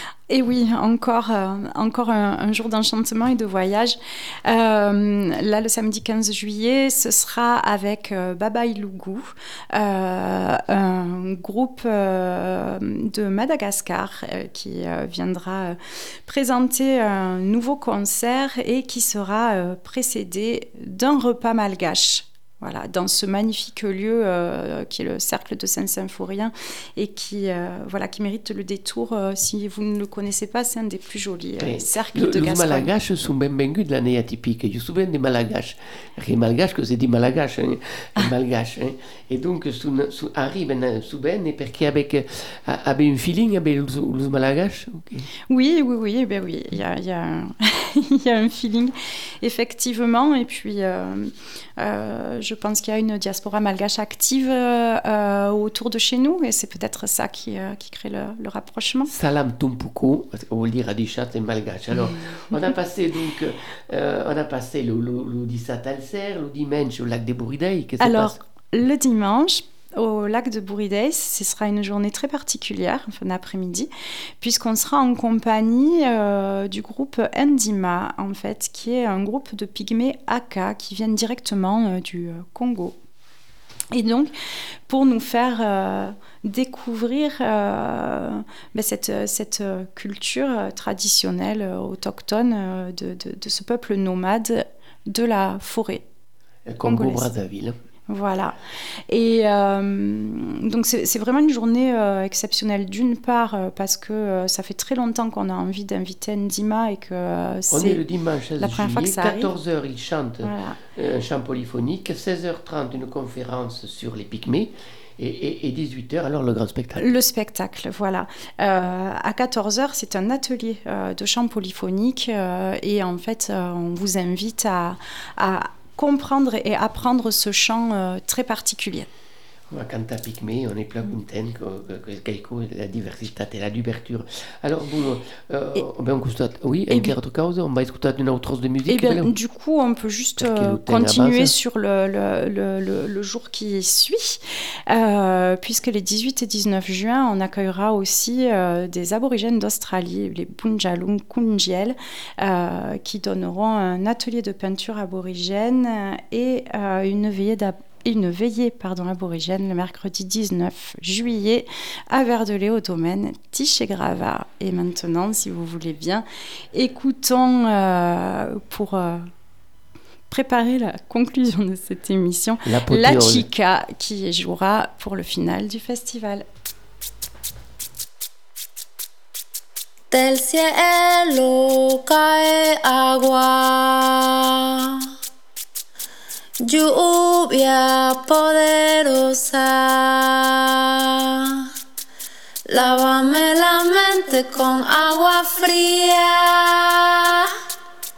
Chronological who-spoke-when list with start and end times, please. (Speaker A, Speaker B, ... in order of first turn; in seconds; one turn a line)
Speaker A: 0.3-32.9
Speaker B: 31.6-45.3
Speaker A: 45.5-59.1
Speaker B: 59.1-68.4
Speaker A: 68.0-73.9
Speaker A: 74.4-83.0
Speaker A: 83.9-84.3
Speaker A: 84.9-96.0
Speaker B: 96.7-97.8
Speaker A: 96.8-97.3
Speaker A: 98.1-98.5
Speaker A: 99.1-108.0
Speaker B: 107.7-117.2
Speaker A: 108.6-109.5
Speaker A: 110.4-110.8
Speaker A: 117.0-129.1
Speaker B: 129.7-139.3
Speaker A: 138.9-169.3
Speaker B: 140.4-141.5
Speaker A: 170.3-176.4
Speaker B: 172.7-173.5
Speaker C: 180.1-185.1
Speaker C: 186.6-191.7
Speaker C: 192.7-197.5